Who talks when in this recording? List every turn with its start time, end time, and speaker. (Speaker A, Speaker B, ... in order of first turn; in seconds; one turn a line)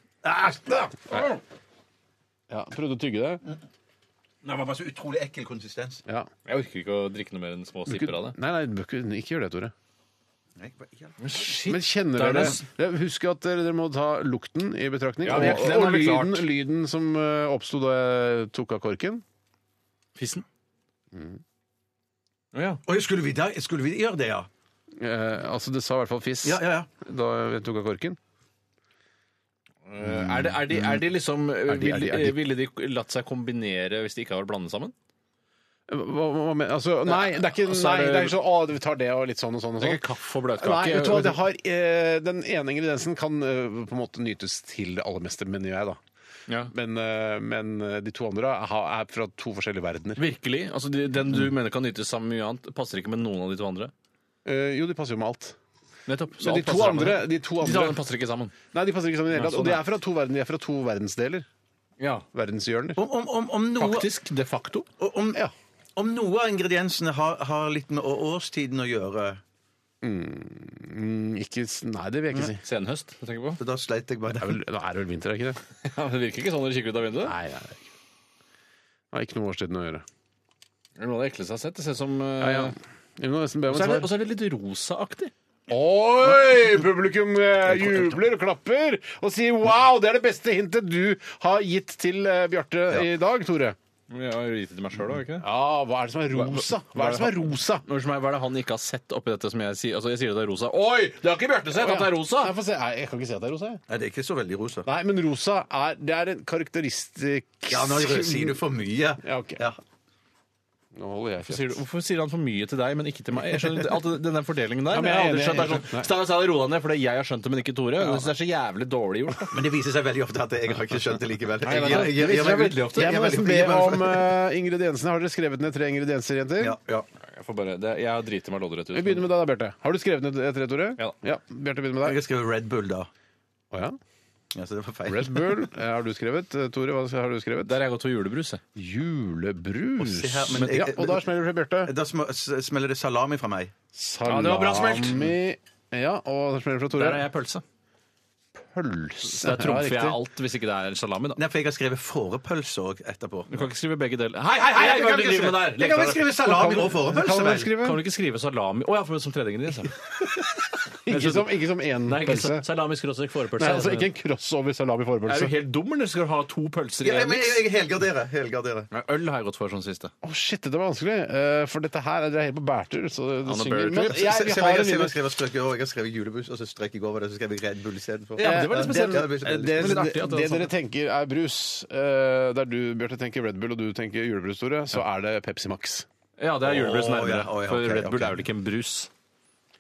Speaker A: 1.1-1.4
Speaker B: 2.5-3.4
Speaker C: 4.4-6.0
Speaker B: 6.1-6.3
Speaker A: 6.5-8.4
Speaker B: 7.9-9.7
Speaker C: 10.6-11.2
Speaker A: 11.2-12.7
Speaker B: 11.6-19.2
Speaker A: 15.2-16.5
Speaker A: 20.2-20.4
Speaker B: 21.1-21.4
Speaker A: 22.5-22.8
Speaker C: 22.9-24.5
Speaker B: 24.9-28.2
Speaker C: 26.4-26.9
Speaker A: 29.9-34.9
Speaker B: 30.0-31.1
Speaker B: 31.7-32.4
Speaker B: 35.9-40.0
Speaker A: 37.1-38.4
Speaker A: 39.8-41.4
Speaker B: 40.6-46.0
Speaker B: 46.7-50.2
Speaker A: 50.2-53.9
Speaker B: 54.5-55.6
Speaker A: 56.1-58.5
Speaker B: 56.4-58.0
Speaker B: 58.7-61.5
Speaker A: 59.3-59.8
Speaker A: 62.0-62.3
Speaker B: 62.3-63.0
Speaker C: 63.0-64.1
Speaker A: 63.8-64.9
Speaker C: 65.0-65.4
Speaker C: 66.0-69.4
Speaker B: 70.0-72.6
Speaker A: 72.3-73.6
Speaker C: 73.6-74.6
Speaker B: 74.3-75.6
Speaker A: 75.8-77.3
Speaker B: 77.2-77.9
Speaker B: 79.1-80.0
Speaker A: 81.0-82.8
Speaker B: 82.4-84.1
Speaker A: 83.7-85.3
Speaker B: 85.7-93.8
Speaker A: 94.1-95.5
Speaker B: 95.4-97.8
Speaker A: 96.3-102.5
Speaker B: 101.7-103.8
Speaker C: 103.9-104.9
Speaker B: 104.8-108.6
Speaker C: 107.7-109.8
Speaker B: 109.2-109.6
Speaker B: 111.0-111.8
Speaker A: 111.5-119.6
Speaker B: 114.9-116.1
Speaker C: 119.5-124.3
Speaker A: 121.6-123.4
Speaker B: 121.7-126.8
Speaker C: 126.6-127.1
Speaker A: 127.2-129.3
Speaker B: 128.9-132.2
Speaker C: 132.0-133.1
Speaker B: 133.7-134.0
Speaker C: 134.5-135.6
Speaker B: 135.1-137.8
Speaker A: 137.6-138.6
Speaker B: 138.8-141.9
Speaker C: 140.0-141.3
Speaker C: 141.8-143.7
Speaker B: 143.9-147.3
Speaker A: 144.2-145.3
Speaker A: 146.9-147.6
Speaker B: 148.6-150.2
Speaker A: 149.2-151.4
Speaker C: 151.4-153.7
Speaker A: 153.5-156.3
Speaker C: 154.8-157.7
Speaker B: 156.4-158.0
Speaker A: 157.8-160.0
Speaker B: 161.1-162.7
Speaker A: 161.1-164.1
Speaker B: 163.5-165.6
Speaker A: 165.3-167.6
Speaker C: 167.0-168.9
Speaker A: 168.9-170.1
Speaker B: 170.2-175.2
Speaker A: 173.5-174.2
Speaker C: 174.0-180.1
Speaker A: 178.4-180.7
Speaker B: 178.4-186.1
Speaker A: 186.4-189.1
Speaker C: 186.6-188.4